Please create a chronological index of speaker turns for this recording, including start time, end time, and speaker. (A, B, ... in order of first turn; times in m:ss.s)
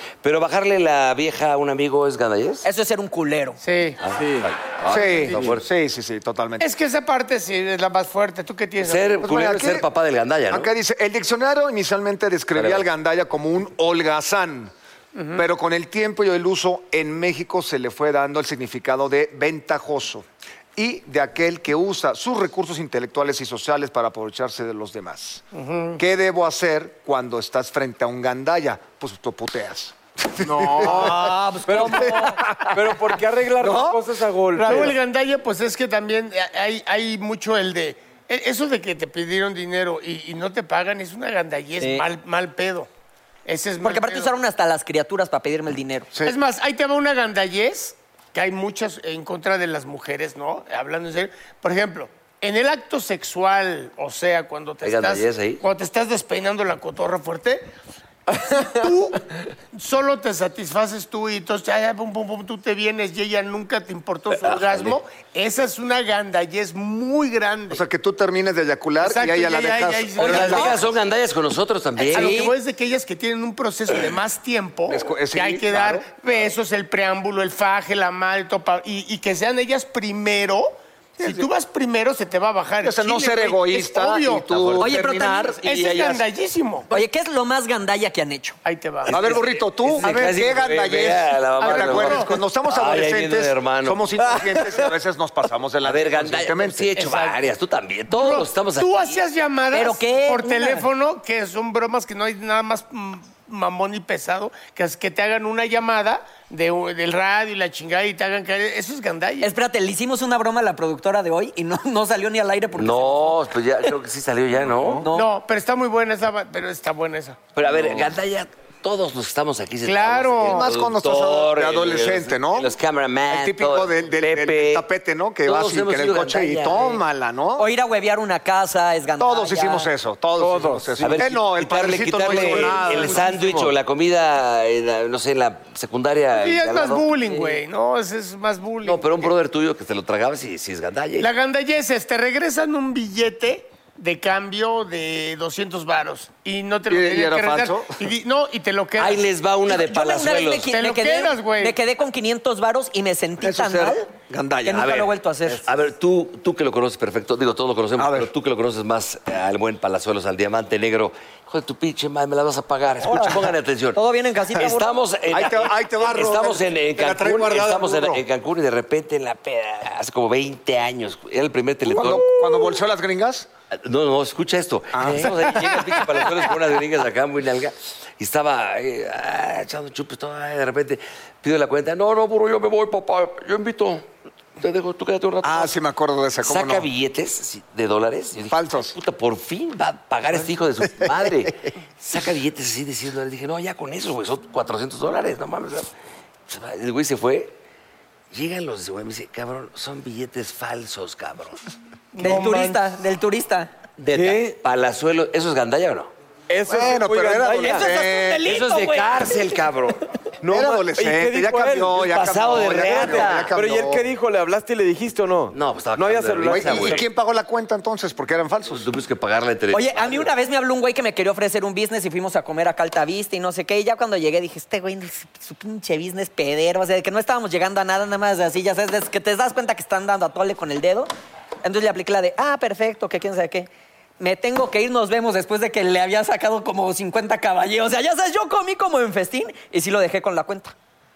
0:00.2-0:02.6 A
0:02.6-0:03.6 B
0:03.6-0:04.0 C
0:04.0-0:05.6 A
0:04.1-0:04.5 D
0:04.9-0:06.7 E
0:06.6-0:09.1 C
0:08.8-0:10.7 A
0:09.2-0:09.8 E
0:10.5-0:14.7 E
0:12.6-0:12.9 A
0:15.1-0:15.4 C
0:15.4-0:20.2 E
0:20.8-0:25.4 E
0:25.5-0:26.0 C
0:26.0-0:31.3 E
0:30.4-0:34.9 D
0:30.8-0:32.4 B
0:31.8-0:32.8 E
0:33.6-0:34.0 E
0:34.6-0:42.9 C
0:43.4-0:44.3 C
0:43.8-0:46.1 B
0:46.2-0:57.7 C
0:54.8-0:55.6 A
0:58.3-0:58.8 D
0:58.4-0:59.2 C
0:59.7-1:07.8 C
1:04.3-1:05.0 A
1:07.7-1:10.8 E
1:09.0-1:10.8 C
1:10.2-1:10.8 B
1:10.2-1:12.5 A
1:12.1-1:24.5 C
1:12.1-1:12.5 B
1:14.9-1:16.5 E
1:21.2-1:21.5 E
1:22.8-1:25.6 E
1:24.5-1:26.2 A
1:24.8-1:25.8 B
1:25.6-1:26.9 C
1:26.9-1:28.6 B
1:28.6-1:29.3 C
1:29.0-1:34.0 A
1:29.1-1:36.9 E
1:31.6-1:32.3 C
1:34.2-1:34.9 D
1:35.8-1:39.2 A
1:37.0-1:37.4 C
1:38.1-1:49.5 C
1:39.7-1:40.9 B
1:49.4-1:53.4 B
1:52.8-1:55.0 A
1:55.0-1:55.3 B
1:55.1-1:57.4 C
1:57.5-2:04.8 A
1:59.8-2:00.7 C
2:00.4-2:02.7 E
2:03.3-2:07.7 E
2:05.4-2:07.0 A
2:07.6-2:09.9 B
2:09.2-2:13.3 E
2:10.4-2:11.3 D
2:11.0-2:17.6 A
2:12.2-2:13.7 D
2:16.3-2:19.3 C
2:18.8-2:21.3 A
2:21.2-2:29.2 C
2:26.9-2:28.0 E
2:29.0-2:30.7 A
2:29.7-2:34.1 B
2:30.7-2:31.8 C
2:33.4-2:35.0 E
2:34.6-2:35.6 B
2:34.7-2:44.0 A
2:38.0-2:38.3 E
2:43.0-2:43.5 E
2:43.9-2:44.9 B
2:44.5-2:52.6 A
2:45.3-2:48.2 E
2:51.8-2:53.5 E
2:53.7-3:04.0 A
2:54.9-2:55.8 E
3:04.6-3:05.7 A
3:05.4-3:06.9 E
3:06.4-3:15.9 A
3:08.5-3:09.0 E
3:11.0-3:11.3 E
3:16.5-3:17.5 A
3:18.3-3:21.6 A
3:22.1-3:22.8 C
3:22.2-3:23.7 B
3:24.0-3:26.1 A
3:24.1-3:24.6 D
3:26.5-3:27.9 D
3:26.7-3:28.6 E
3:27.6-3:29.4 B
3:28.4-3:30.0 A
3:30.4-3:37.0 D
3:30.4-3:34.1 E
3:32.0-3:33.5 A
3:35.5-3:37.0 A
3:36.4-3:38.9 E
3:38.7-3:40.3 A
3:39.7-3:51.1 B
3:51.6-4:00.7 B